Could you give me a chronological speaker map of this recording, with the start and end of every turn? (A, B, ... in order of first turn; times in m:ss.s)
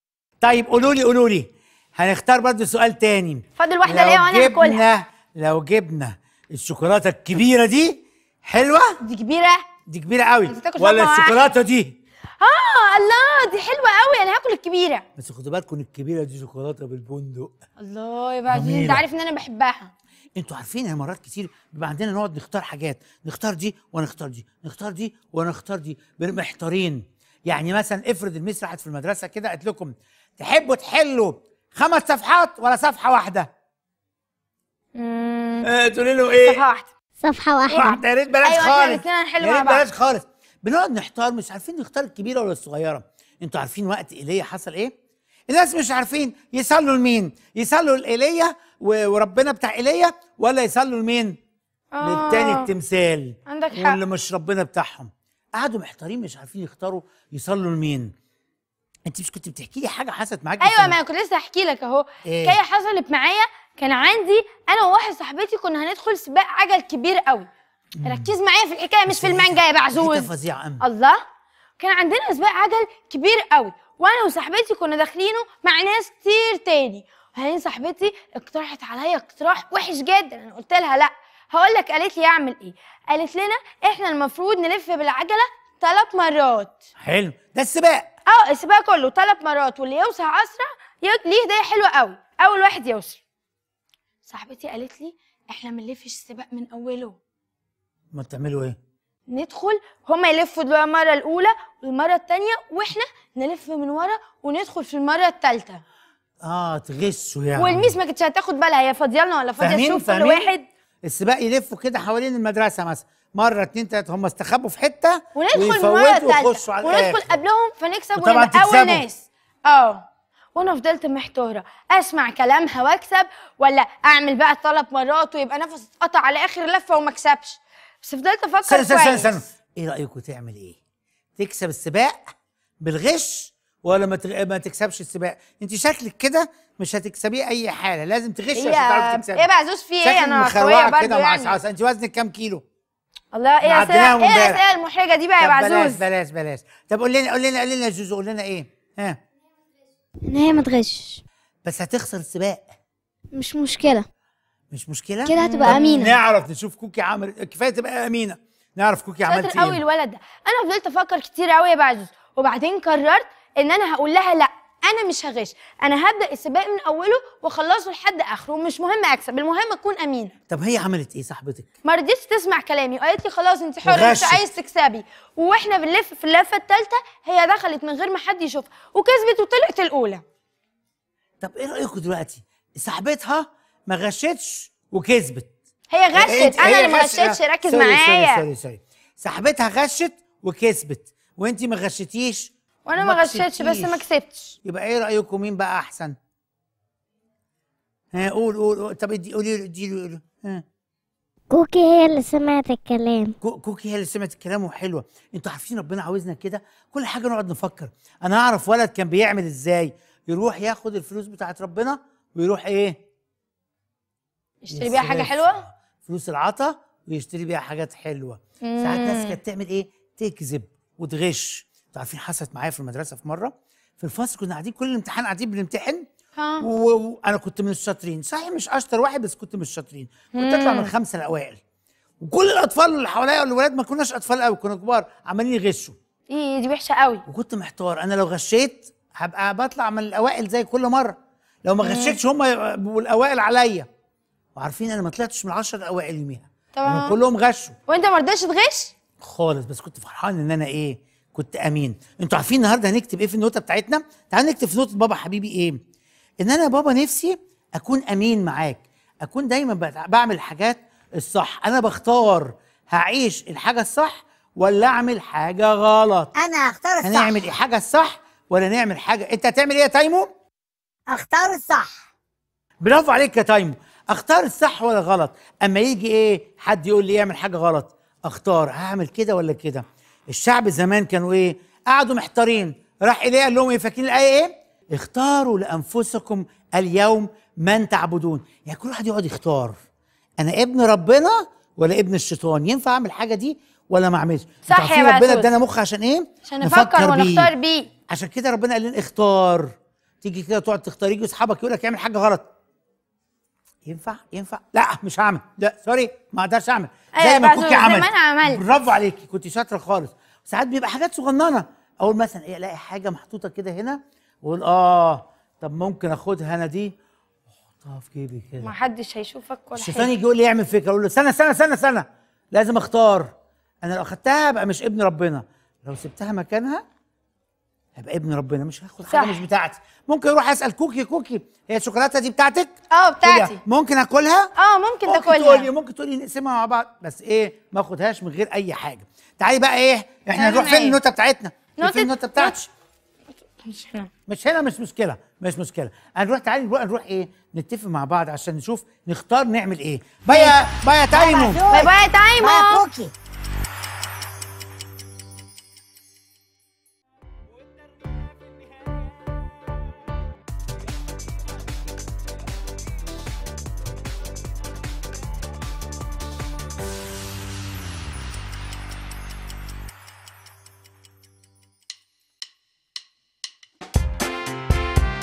0:00.4-0:09.0 A
0:03.6-0:04.8 B
0:09.0-0:09.6 B
0:09.9-0:12.0 A
0:10.5-0:11.4 B
0:12.4-0:15.0 B
0:15.2-0:17.5 A
0:17.8-0:19.9 B
0:18.5-0:19.0 A
0:20.4-0:33.5 A
0:35.0-0:35.7 B
0:35.6-0:36.6 A
0:36.4-0:36.9 B
0:37.2-0:38.0 C
0:37.7-0:44.9 A
0:38.4-0:39.9 B
0:45.5-0:51.4 A
0:51.9-0:52.7 B
0:52.0-0:58.1 A
0:53.5-0:54.0 B
0:59.1-1:01.0 A
1:00.6-1:07.5 B
1:02.2-1:02.6 A
1:08.0-1:08.3 A
1:08.0-1:10.3 B
1:09.1-1:10.8 A
1:10.8-1:11.2 B
1:11.8-1:26.8 B
1:27.0-1:28.1 A
1:28.3-1:33.2 B
1:34.3-1:37.2 B
1:38.1-1:38.8 A
1:39.3-1:45.8 B
1:46.4-1:47.9 A
1:47.6-1:50.6 B
1:49.6-1:50.5 A
1:51.0-1:57.4 A
1:55.3-2:09.4 B
1:58.2-1:59.0 A
2:08.6-2:10.8 A
2:11.4-2:12.2 A
2:12.8-2:19.5 A
2:18.5-2:21.6 B
2:20.0-2:22.6 A
2:23.3-2:26.0 B
2:23.6-2:24.6 A
2:25.4-2:29.2 A
2:30.3-2:31.2 C
2:31.6-2:32.6 A
2:33.4-2:34.0 C
2:34.7-2:39.8 A
2:35.3-2:36.1 C
2:35.4-2:36.1 B
2:39.2-2:50.3 B
2:50.5-2:51.7 A
2:51.8-3:00.2 B
2:53.8-2:54.4 A
3:01.4-3:05.5 A
3:05.9-3:08.4 B
3:06.1-3:14.0 A
3:12.9-3:14.6 B
3:14.6-3:16.2 A
3:18.1-3:20.6 A
3:21.5-3:23.3 C
3:23.4-3:33.0 A
3:34.6-3:35.6 B
3:34.7-3:46.0 A
3:38.6-3:39.4 B
3:46.4-3:46.6 B
3:46.6-3:51.6 A
3:50.3-3:50.9 B
3:52.2-3:56.0 A
3:56.3-3:57.2 B
3:57.2-4:03.9 A
4:01.8-4:02.2 B
4:04.5-4:07.7 A
4:06.7-4:07.2 B
4:07.9-4:08.9 B
4:09.2-4:15.8 A
4:16.4-4:26.3 A
4:26.4-4:27.4 D
4:27.0-4:30.3 A
4:31.1-4:32.0 D
4:32.8-4:49.8 A
4:50.4-4:57.5 A
4:54.7-4:55.5 B
4:56.5-4:57.9 B
4:58.1-5:02.5 A
5:03.8-5:16.9 A
5:07.2-5:08.6 B
5:17.8-5:18.7 A
5:18.6-5:20.1 B
5:19.8-5:26.8 A
5:28.0-5:32.7 A
5:29.1-5:29.4 B
5:32.9-5:33.6 B
5:33.2-5:34.5 A
5:34.6-5:35.7 B
5:35.0-5:42.7 A
5:40.3-5:41.0 B
5:41.8-5:42.6 B
5:43.7-5:44.1 B
5:44.3-5:51.6 A
5:51.1-5:53.1 D
5:51.7-5:52.8 B